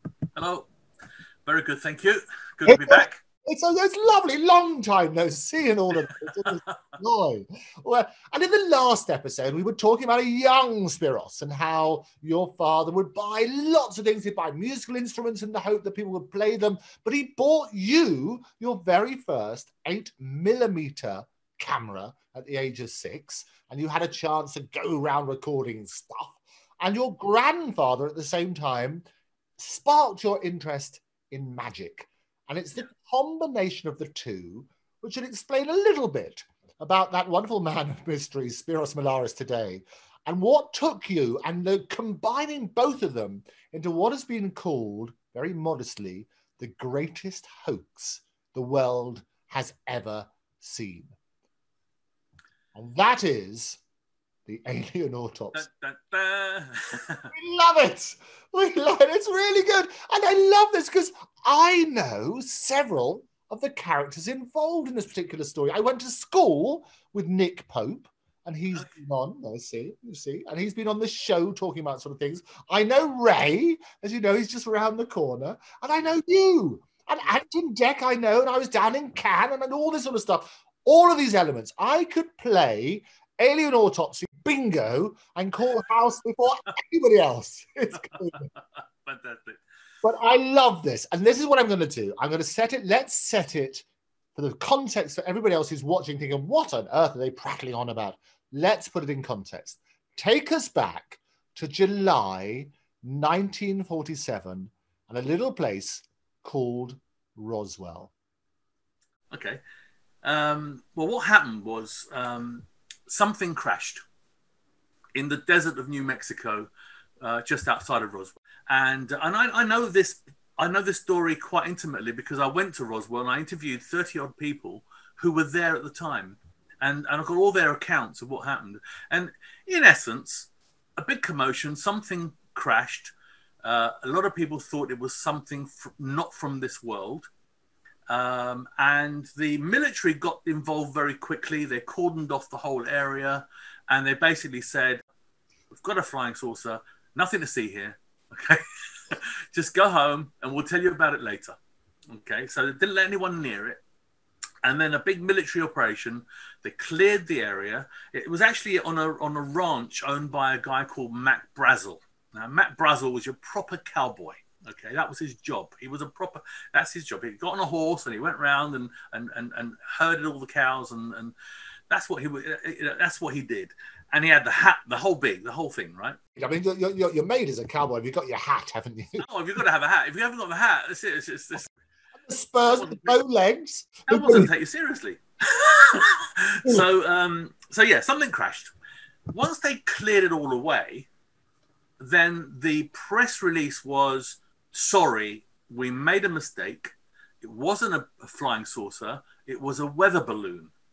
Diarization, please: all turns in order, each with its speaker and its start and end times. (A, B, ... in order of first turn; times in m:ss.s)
0:00.4-0:00.7 A
0:01.4-0:03.2 A
0:02.7-0:29.1 B
0:06.1-0:06.8 A
0:29.6-0:51.1 B
0:52.8-0:53.8 B
0:54.5-0:55.6 B
0:55.5-0:57.3 A
0:57.3-1:28.5 B
1:28.0-1:29.6 A
1:30.0-1:33.8 B
1:34.4-1:48.1 B
1:49.3-1:49.6 A
1:50.2-1:54.0 A
1:55.2-2:17.3 A
2:18.1-2:25.0 A
2:25.7-2:31.6 A
2:32.1-2:33.8 A
2:34.6-2:51.3 A
2:51.9-2:56.2 A
2:56.4-2:59.3 B
2:59.2-3:01.7 A
3:02.2-3:04.5 B
3:02.7-3:03.2 A
3:04.1-3:08.7 A
3:09.3-3:11.1 A
3:12.0-3:20.7 A